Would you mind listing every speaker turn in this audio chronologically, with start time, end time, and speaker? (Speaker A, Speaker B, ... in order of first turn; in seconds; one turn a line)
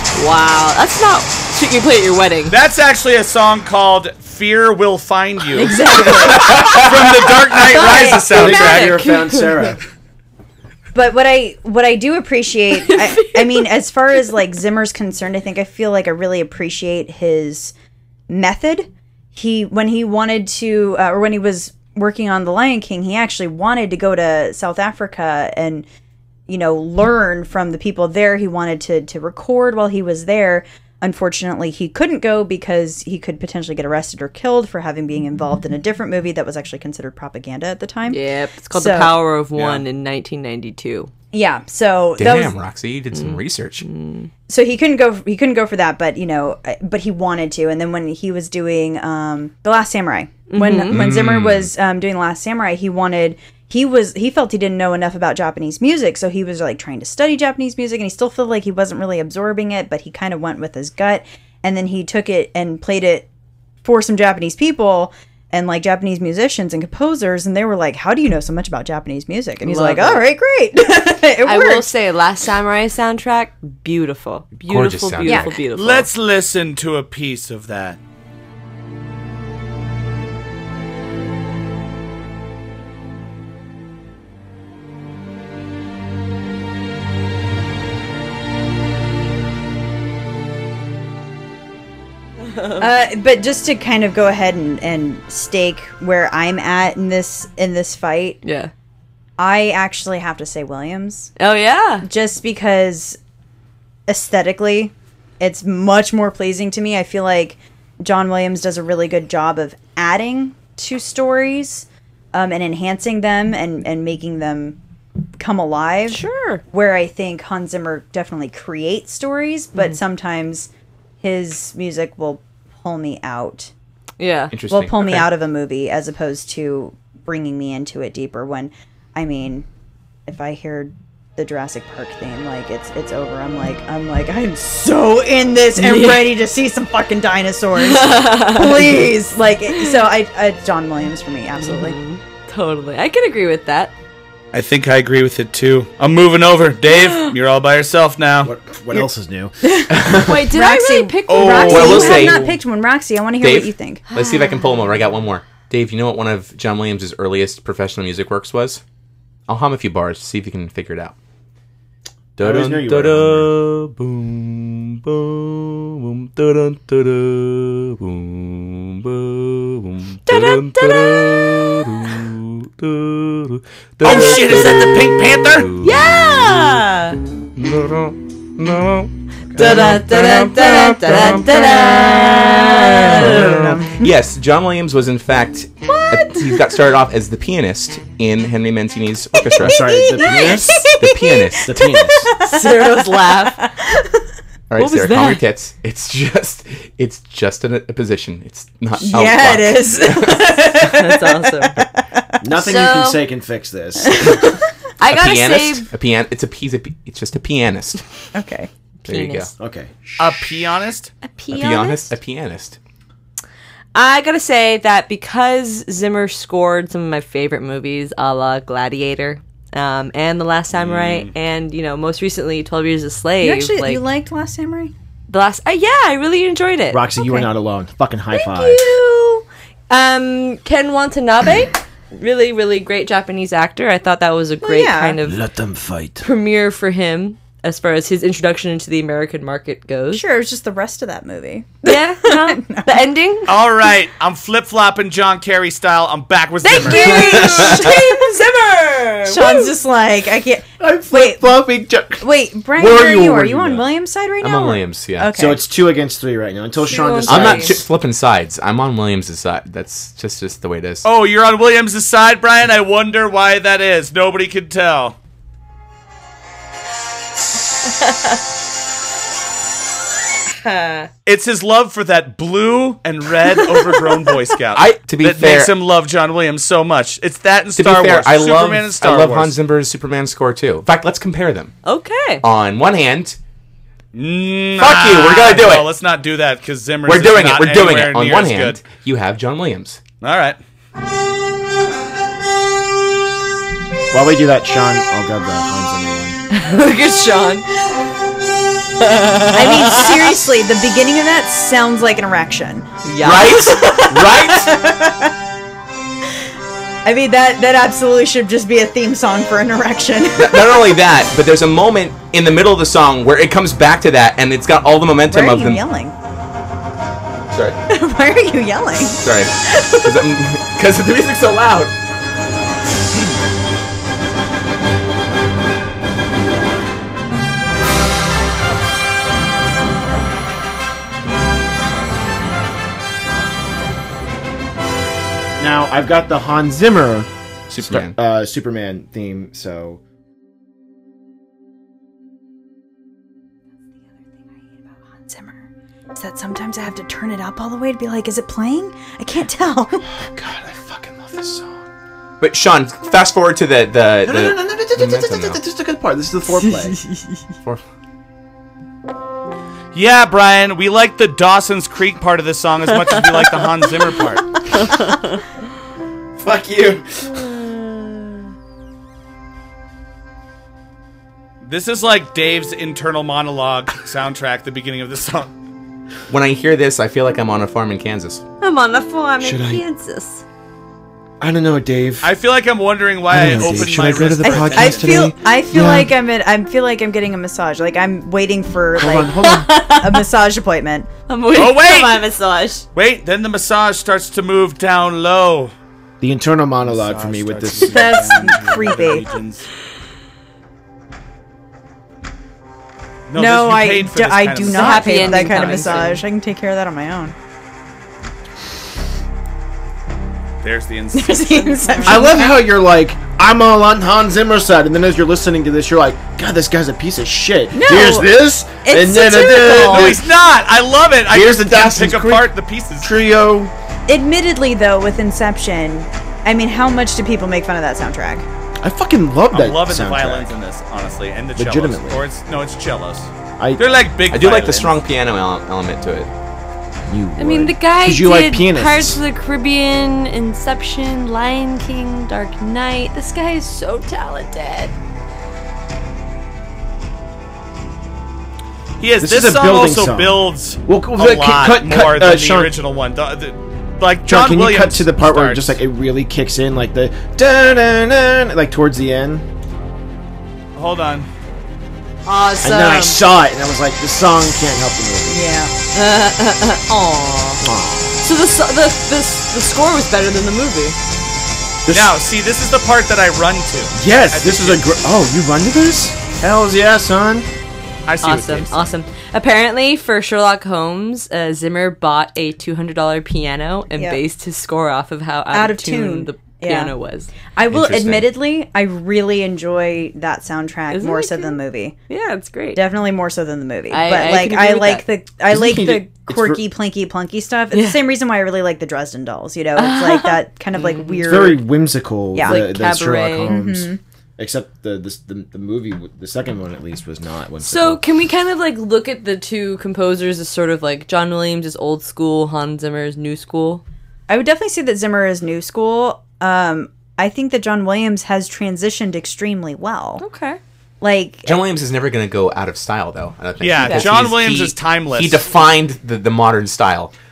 Speaker A: 0.1-2.5
Speaker B: 2.5-9.0
Speaker A: 5.5-6.9
Speaker C: 6.2-6.9
Speaker A: 7.5-9.7
Speaker D: 7.7-8.3
Speaker E: 8.3-9.8
Speaker D: 10.9-17.7
Speaker A: 12.8-13.7
Speaker D: 18.3-25.9
Speaker D: 26.5-39.2
Speaker A: 38.1-41.1
Speaker B: 39.5-39.8
Speaker D: 41.3-42.5
Speaker C: 42.2-43.8
Speaker A: 43.1-44.3
Speaker D: 44.5-63.3
Speaker A: 50.5-51.1
Speaker C: 50.9-51.7
Speaker D: 63.8-71.9
Speaker A: 69.6-70.3
Speaker A: 71.4-76.1
Speaker C: 74.6-75.5
Speaker D: 75.2-75.5
Speaker B: 75.7-78.0
Speaker D: 92.8-98.4
Speaker A: 98.4-98.7
Speaker D: 99.4-101.3
Speaker A: 101.4-102.0
Speaker D: 102.0-103.2
Speaker D: 104.1-114.8
Speaker D: 115.4-116.2
Speaker A: 116.1-116.6
Speaker D: 116.7-120.7
Speaker D: 121.2-123.7
Speaker A: 124.2-124.5
Speaker C: 124.5-125.3
Speaker D: 124.7-129.7
Speaker D: 130.3-142.0
Speaker A: 135.8-136.3
Speaker A: 137.8-139.1
Speaker A: 139.7-140.0
Speaker A: 141.6-143.9
Speaker B: 144.5-148.5
Speaker E: 148.4-150.5
Speaker D: 149.8-154.0
Speaker A: 149.9-152.5
Speaker B: 151.3-151.9
Speaker C: 151.7-152.4
Speaker C: 153.4-158.8
Speaker A: 154.1-154.6
Speaker C: 159.5-161.1
Speaker C: 162.4-176.1
Speaker E: 162.4-163.5
Speaker A: 170.2-172.2
Speaker B: 174.0-175.7
Speaker A: 175.8-177.2
Speaker C: 177.6-182.2
Speaker E: 179.5-179.9
Speaker A: 179.6-183.5
Speaker D: 181.4-184.1
Speaker C: 183.0-189.8
Speaker E: 183.2-183.9
Speaker A: 185.9-186.6
Speaker E: 189.6-190.9
Speaker D: 190.1-194.1
Speaker C: 190.9-191.8
Speaker E: 191.6-192.3
Speaker A: 192.4-193.6
Speaker C: 194.7-200.7
Speaker A: 194.8-195.4
Speaker D: 199.0-202.3
Speaker A: 200.8-201.8
Speaker E: 202.4-204.4
Speaker A: 202.5-203.2
Speaker D: 204.1-204.5
Speaker A: 205.0-205.9
Speaker C: 205.1-208.0
Speaker D: 208.3-208.7
Speaker A: 209.0-209.5
Speaker C: 209.1-209.5
Speaker E: 209.6-210.4
Speaker B: 210.2-211.1
Speaker A: 211.2-212.1
Speaker C: 211.5-212.8
Speaker A: 213.9-224.0
Speaker B: 220.7-221.3
Speaker D: 223.4-224.9
Speaker A: 225.3-227.5
Speaker E: 226.9-228.9
Speaker A: 228.3-235.4
Speaker D: 234.6-235.2
Speaker E: 235.2-236.2
Speaker A: 236.2-240.2
Speaker D: 240.1-242.9
Speaker A: 241.8-243.6
Speaker B: 243.5-247.3
Speaker A: 246.6-249.8
Speaker D: 246.7-248.4
Speaker C: 247.4-247.9
Speaker D: 249.3-251.5
Speaker E: 250.8-252.2
Speaker D: 252.2-255.6
Speaker E: 252.8-253.8
Speaker C: 254.4-255.3
Speaker E: 255.3-257.8
Speaker A: 256.8-257.8
Speaker C: 257.2-261.1
Speaker B: 261.0-265.1
Speaker A: 267.8-268.4
Speaker A: 270.6-271.1
Speaker B: 271.2-279.5
Speaker A: 273.6-274.2
Speaker C: 274.7-275.7
Speaker C: 277.8-281.7
Speaker A: 281.8-282.4
Speaker C: 282.4-283.4
Speaker B: 284.1-288.8
Speaker C: 284.8-285.9
Speaker C: 287.1-290.0
Speaker B: 290.2-290.6
Speaker E: 294.1-296.4
Speaker A: 296.5-297.6
Speaker A: 299.0-300.4
Speaker D: 299.5-302.9
Speaker A: 303.0-304.3
Speaker C: 303.2-304.7
Speaker D: 304.4-305.3
Speaker D: 307.0-311.0
Speaker C: 310.3-315.8
Speaker D: 315.3-316.1
Speaker C: 317.5-317.8
Speaker D: 317.9-320.2
Speaker C: 319.1-321.9
Speaker E: 335.6-340.0
Speaker C: 337.7-338.1
Speaker D: 344.9-350.1
Speaker E: 350.1-351.8
Speaker C: 352.4-355.6
Speaker E: 354.2-357.0
Speaker A: 356.7-357.4
Speaker B: 359.9-364.5
Speaker A: 364.7-365.4
Speaker E: 366.4-367.1
Speaker A: 367.5-368.0
Speaker B: 371.6-375.5
Speaker C: 376.3-378.4
Speaker A: 378.6-380.4
Speaker E: 379.4-379.8
Speaker E: 381.4-382.3
Speaker B: 382.2-385.2
Speaker E: 383.3-386.1
Speaker D: 384.4-391.1
Speaker E: 389.0-389.8
Speaker A: 389.4-390.2
Speaker A: 391.3-392.8
Speaker B: 391.5-392.2
Speaker B: 392.9-395.7
Speaker E: 396.2-398.2
Speaker B: 396.8-399.7
Speaker D: 397.8-399.3
Speaker B: 403.3-406.2
Speaker D: 403.3-407.3
Speaker A: 404.6-406.2
Speaker B: 410.6-411.7
Speaker D: 411.1-412.6
Speaker A: 411.8-412.4
Speaker E: 412.0-420.2
Speaker D: 417.7-418.2
Speaker A: 417.9-418.2
Speaker D: 418.9-420.1
Speaker A: 419.2-419.7
Speaker B: 419.8-423.1
Speaker E: 421.3-422.5
Speaker E: 423.0-423.7
Speaker D: 424.1-428.4
Speaker E: 428.8-430.5
Speaker B: 429.5-434.9
Speaker E: 431.6-432.2
Speaker E: 433.6-433.8
Speaker C: 434.3-436.3
Speaker E: 437.1-439.2
Speaker A: 437.4-444.9
Speaker B: 449.0-455.8
Speaker E: 449.2-452.7
Speaker E: 454.3-459.4
Speaker B: 460.7-461.3
Speaker A: 462.2-463.2
Speaker E: 462.6-465.4
Speaker D: 465.3-465.7
Speaker A: 465.9-467.6
Speaker E: 467.6-468.2
Speaker A: 468.2-471.0
Speaker E: 471.9-472.1
Speaker B: 471.9-474.8
Speaker E: 473.9-477.5
Speaker B: 478.1-478.9
Speaker A: 478.2-487.3
Speaker D: 485.5-486.9
Speaker D: 487.5-491.9
Speaker C: 487.7-488.3
Speaker A: 490.9-492.8
Speaker D: 492.7-501.6
Speaker A: 493.9-495.0
Speaker E: 495.5-496.6
Speaker A: 497.7-498.0
Speaker A: 499.8-501.5
Speaker E: 501.2-508.0
Speaker D: 502.3-502.6
Speaker A: 502.4-503.6
Speaker D: 503.4-504.0
Speaker A: 507.6-513.8
Speaker D: 514.3-520.2
Speaker A: 520.2-520.6
Speaker D: 521.0-521.6
Speaker C: 521.4-527.1
Speaker B: 523.6-525.4
Speaker A: 523.8-524.0